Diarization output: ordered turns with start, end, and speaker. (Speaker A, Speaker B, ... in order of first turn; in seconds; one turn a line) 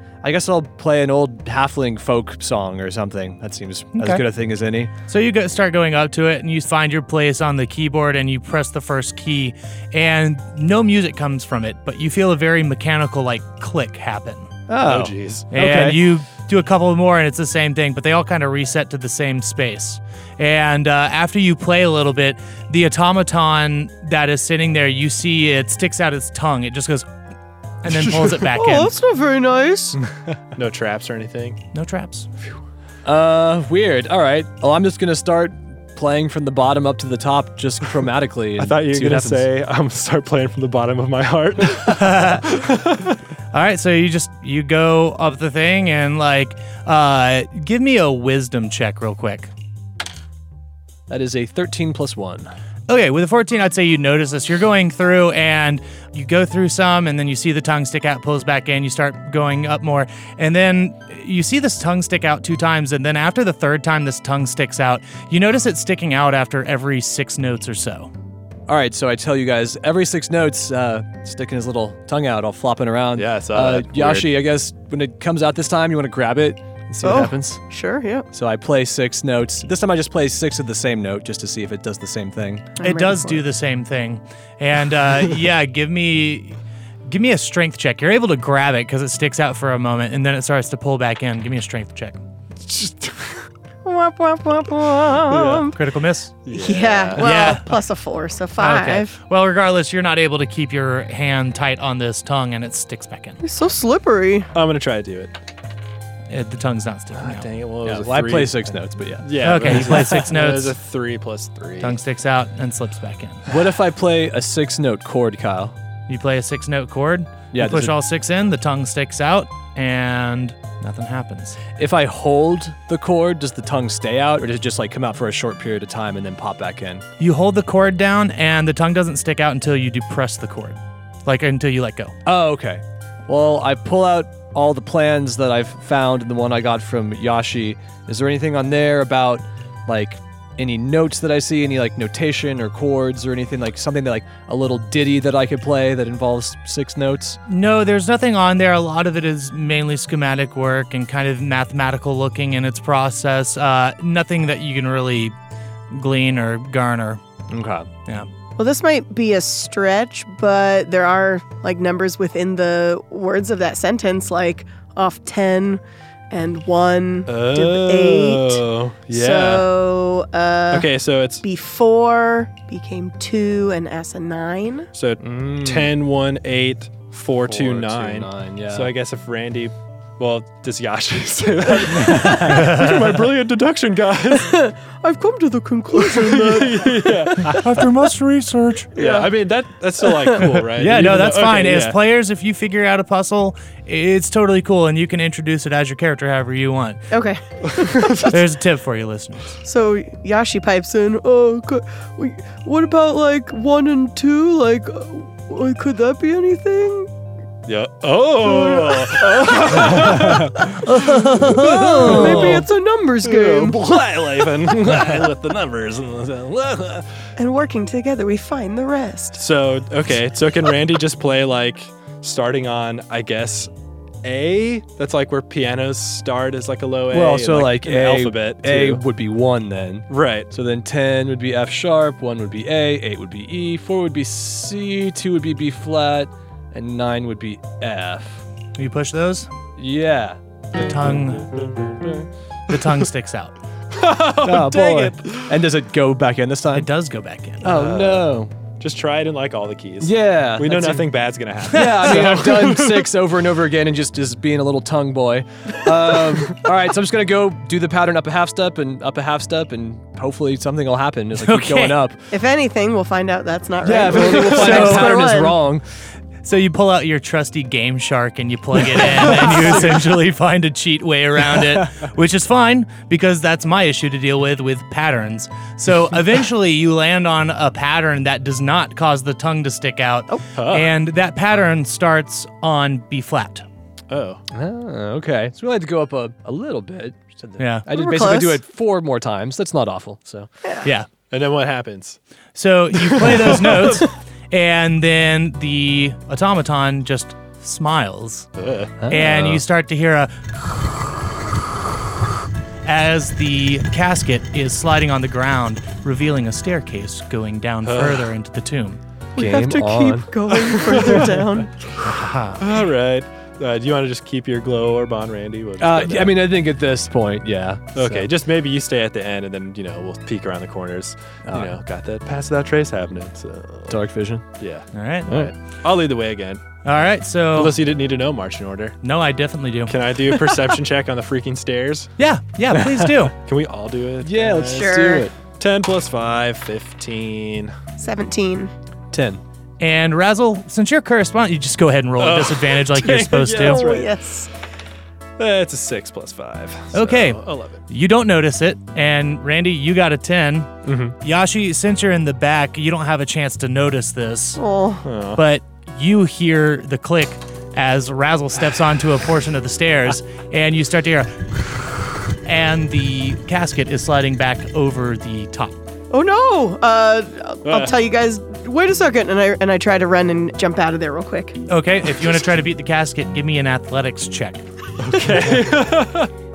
Speaker A: 0.2-4.9
Speaker B: 4.0-4.2
Speaker B: 5.1-14.5
Speaker A: 14.7-16.1
Speaker C: 14.8-15.5
Speaker B: 15.5-27.1
Speaker B: 27.8-28.9
Speaker D: 28.5-30.0
Speaker C: 30.6-31.6
Speaker B: 31.7-32.3
Speaker A: 33.0-39.5
Speaker C: 38.6-43.2
Speaker B: 41.9-42.5
Speaker B: 43.5-49.5
Speaker A: 51.1-52.5
Speaker B: 52.9-68.1
Speaker A: 68.7-77.6
Speaker C: 73.2-74.3
Speaker D: 77.0-78.3
Speaker A: 78.3-82.7
Speaker D: 82.8-83.4
Speaker B: 82.8-92.2
Speaker C: 92.7-93.4
Speaker D: 93.8-95.8
Speaker C: 95.3-95.7
Speaker B: 95.7-96.4
Speaker C: 96.5-97.3
Speaker D: 96.5-99.2
Speaker B: 97.2-97.7
Speaker B: 98.6-103.4
Speaker D: 103.4-104.5
Speaker C: 104.5-105.3
Speaker B: 106.3-107.5
Speaker C: 107.2-112.0
Speaker A: 107.8-110.3
Speaker B: 109.4-110.8
Speaker B: 111.8-113.4
Speaker A: 113.5-115.8
Speaker B: 116.1-121.6
Speaker A: 117.5-118.0
Speaker A: 121.8-127.1
Speaker B: 127.2-132.1
Speaker A: 132.3-147.4
Speaker B: 147.5-155.3
Speaker B: 155.9-157.2
Speaker A: 157.5-157.9
Speaker D: 158.6-174.9
Speaker C: 167.3-169.7
Speaker C: 170.7-171.4
Speaker C: 174.9-184.6
Speaker A: 175.2-176.0
Speaker A: 177.4-178.9
Speaker A: 182.0-182.5
Speaker B: 182.3-183.3
Speaker D: 184.3-187.6
Speaker C: 185.9-187.6
Speaker B: 187.4-188.9
Speaker D: 188.9-189.3
Speaker C: 188.9-192.0
Speaker D: 190.0-190.4
Speaker B: 190.4-197.1
Speaker D: 197.1-198.3
Speaker C: 197.7-198.4
Speaker B: 198.1-199.6
Speaker D: 199.6-207.1
Speaker C: 207.7-212.7
Speaker D: 208.4-214.5
Speaker B: 210.8-212.6
Speaker C: 213.2-217.1
Speaker D: 217.4-219.4
Speaker C: 219.3-223.7
Speaker C: 224.2-229.0
Speaker A: 227.1-238.4
Speaker C: 230.1-230.5
Speaker B: 238.8-239.5
Speaker A: 239.8-241.2
Speaker B: 240.8-241.5
Speaker B: 242.7-243.6
Speaker C: 243.9-245.6
Speaker A: 244.4-246.9
Speaker B: 246.7-247.7
Speaker A: 247.6-248.5
Speaker C: 247.7-253.1
Speaker A: 250.0-251.1
Speaker A: 251.7-262.3
Speaker B: 251.8-252.1
Speaker B: 261.4-262.0
Speaker D: 262.3-265.6
Speaker A: 263.8-265.9
Speaker B: 264.5-265.2
Speaker B: 266.4-283.6
Speaker C: 280.5-280.9
Speaker C: 284.1-284.4
Speaker A: 284.5-290.5
Speaker B: 287.6-287.9
Speaker D: 287.9-288.6
Speaker C: 291.3-292.2
Speaker B: 292.6-298.5
Speaker C: 292.9-294.1
Speaker C: 298.6-299.6
Speaker A: 299.0-299.5
Speaker B: 299.1-300.6
Speaker B: 302.9-309.0
Speaker C: 307.9-308.3
Speaker A: 309.4-310.3
Speaker D: 309.4-311.7
Speaker C: 310.5-311.4
Speaker B: 312.0-312.7
Speaker C: 312.6-316.4
Speaker A: 315.8-318.3
Speaker C: 317.9-324.0
Speaker A: 321.5-321.8
Speaker A: 323.9-324.4
Speaker C: 324.6-326.6
Speaker B: 324.9-325.5
Speaker B: 326.8-327.8
Speaker C: 327.5-329.0
Speaker B: 329.0-329.9
Speaker C: 329.9-332.1
Speaker B: 332.2-333.3
Speaker A: 332.7-333.1
Speaker C: 333.4-337.8
Speaker A: 334.2-335.3
Speaker D: 334.7-335.3
Speaker D: 338.0-338.7
Speaker A: 339.1-339.4
Speaker B: 339.8-343.8
Speaker C: 342.2-344.1
Speaker D: 343.6-344.5
Speaker C: 345.4-347.8
Speaker B: 346.9-354.6
Speaker D: 354.6-355.1
Speaker C: 355.0-355.4
Speaker B: 355.4-365.8
Speaker D: 366.1-371.6
Speaker C: 367.6-367.9
Speaker B: 371.7-374.6
Speaker C: 375.0-376.3